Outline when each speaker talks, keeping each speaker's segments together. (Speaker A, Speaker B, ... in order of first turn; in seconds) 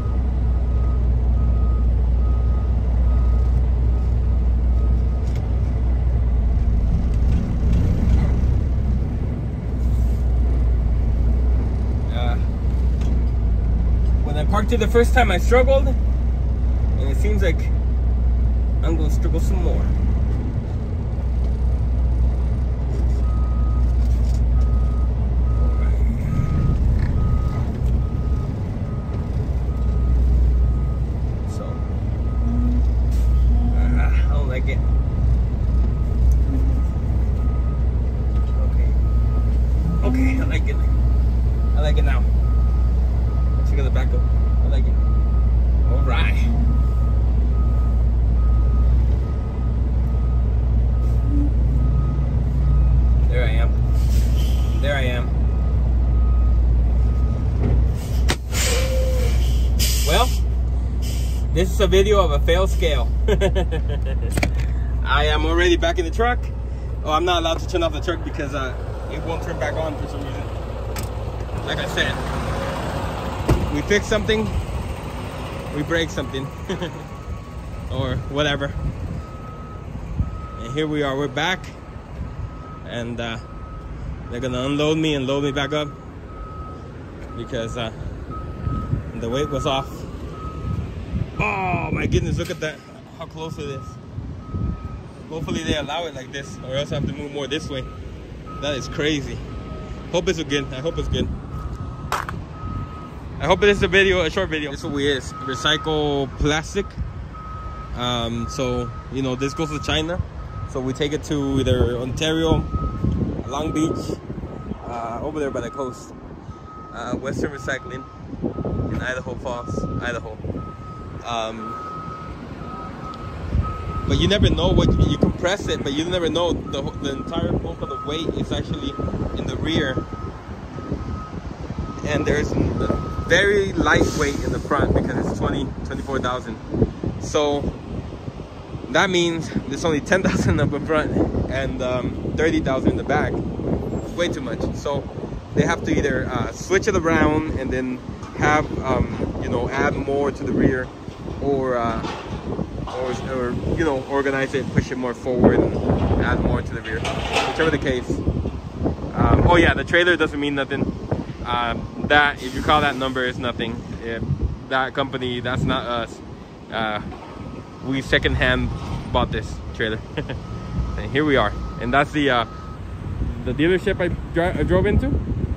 Speaker A: 12.1-12.4, 14.2-16.0, 17.0-17.8, 18.8-19.9, 25.6-26.5, 31.4-31.8, 33.7-34.8, 38.5-39.0, 40.0-40.9, 41.7-42.3, 43.5-45.0, 45.9-46.5, 53.3-53.8, 54.7-55.3, 60.0-60.4, 61.5-64.4, 65.0-70.5, 71.6-72.2, 73.7-74.6, 75.7-77.1, 77.9-78.8, 80.6-81.8, 82.8-83.4, 84.3-85.9, 87.3-88.0, 89.1-90.1, 91.4-94.0, 95.3-97.9, 98.6-99.4, 100.1-101.3, 103.4-107.0, 107.9-112.7, 113.4-114.2, 114.8-116.1, 116.9-118.1, 118.9-120.4, 121.2-121.8, 124.0-130.1, 132.0-136.6, 137.2-137.7, 138.9-143.4, 144.1-152.1, 152.9-158.2, 159.1-160.9, 161.4-167.1, 167.8-170.4, 171.0-172.5, 173.2-175.2